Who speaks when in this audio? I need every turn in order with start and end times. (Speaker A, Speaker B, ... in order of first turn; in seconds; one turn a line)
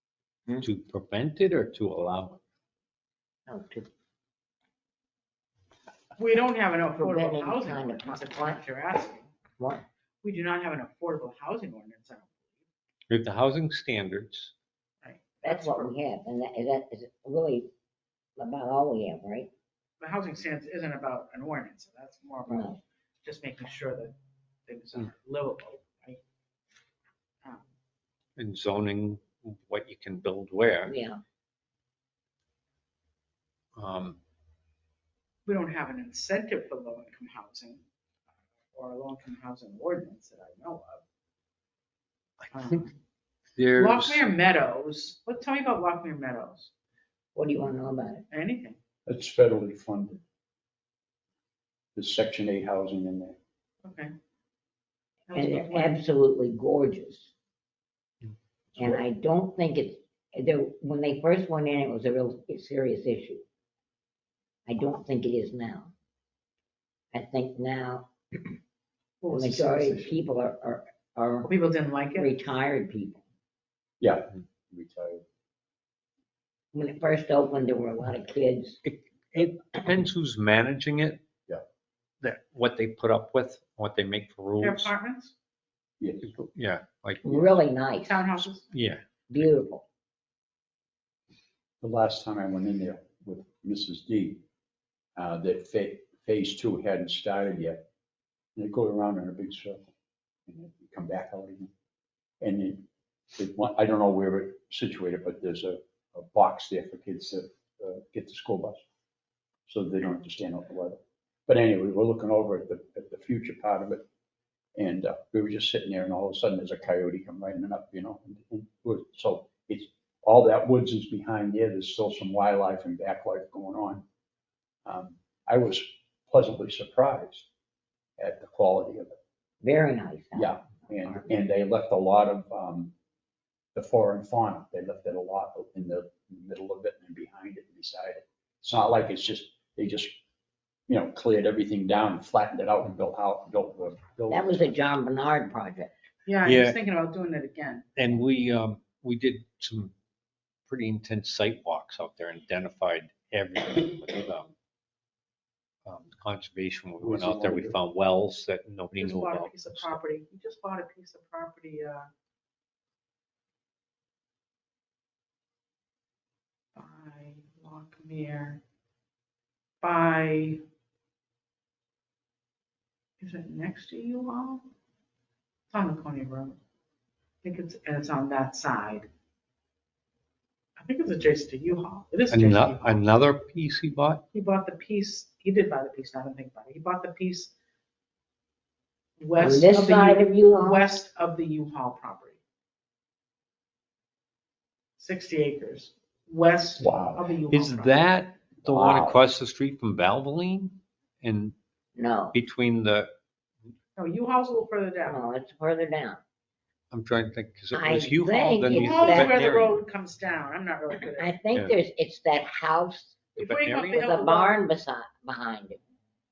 Speaker A: 0.6-2.4
Speaker B: 3.5-3.9
Speaker C: 6.2-9.3
Speaker B: 7.0-8.6
Speaker B: 9.6-9.8
Speaker C: 10.2-12.5
Speaker A: 13.1-14.5
Speaker C: 15.0-15.9
Speaker B: 15.4-17.7
Speaker B: 18.4-19.5
Speaker C: 20.0-24.1
Speaker B: 22.5-22.8
Speaker C: 24.7-26.2
Speaker A: 28.4-30.9
Speaker B: 30.9-31.2
Speaker A: 33.8-34.2
Speaker C: 35.5-37.8
Speaker C: 38.7-41.0
Speaker A: 42.4-42.8
Speaker C: 42.5-43.0
Speaker A: 43.5-44.2
Speaker C: 43.7-46.7
Speaker B: 47.3-48.2
Speaker C: 48.3-48.8
Speaker D: 49.0-50.2
Speaker D: 52.0-53.4
Speaker C: 53.8-54.1
Speaker C: 55.3-56.0
Speaker B: 55.3-57.3
Speaker B: 58.8-63.4
Speaker B: 64.7-65.9
Speaker B: 67.1-68.5
Speaker C: 69.2-70.2
Speaker B: 69.3-71.5
Speaker C: 71.5-72.3
Speaker B: 72.1-73.2
Speaker D: 74.0-75.2
Speaker B: 76.7-78.8
Speaker A: 78.8-81.2
Speaker A: 82.2-84.9
Speaker C: 84.6-85.3
Speaker D: 86.0-86.3
Speaker A: 86.2-87.5
Speaker B: 87.2-88.2
Speaker C: 88.0-88.6
Speaker A: 88.7-89.4
Speaker B: 89.3-89.8
Speaker D: 91.8-94.4
Speaker D: 95.2-97.9
Speaker D: 98.5-99.9
Speaker D: 100.5-101.7
Speaker D: 102.4-102.8
Speaker D: 103.3-108.8
Speaker D: 109.7-114.0
Speaker D: 114.8-124.0
Speaker D: 124.8-127.5
Speaker D: 128.2-129.1
Speaker B: 129.6-131.2
Speaker D: 130.3-132.9
Speaker D: 133.7-140.2
Speaker D: 140.9-144.8
Speaker B: 144.3-145.9
Speaker C: 146.2-147.9
Speaker A: 146.4-146.8
Speaker A: 147.9-149.9
Speaker A: 150.7-154.5
Speaker A: 155.8-159.9
Speaker D: 157.0-157.8
Speaker C: 159.0-162.1
Speaker C: 166.8-168.6
Speaker C: 169.8-170.6
Speaker C: 173.2-174.6
Speaker C: 175.7-176.6
Speaker C: 177.4-179.1
Speaker C: 180.8-183.0
Speaker A: 182.3-184.2
Speaker C: 184.3-187.5
Speaker C: 189.2-192.4
Speaker B: 189.4-190.9
Speaker C: 195.0-198.0
Speaker D: 196.8-197.2
Speaker A: 197.5-201.5
Speaker D: 198.6-199.2
Speaker B: 201.9-202.3
Speaker A: 202.3-203.1
Speaker C: 203.9-205.2
Speaker B: 205.1-206.2
Speaker A: 206.9-209.8
Speaker B: 207.7-209.4
Speaker C: 208.7-211.3
Speaker B: 211.1-213.2
Speaker C: 213.3-214.6
Speaker A: 213.4-214.0
Speaker B: 213.9-215.8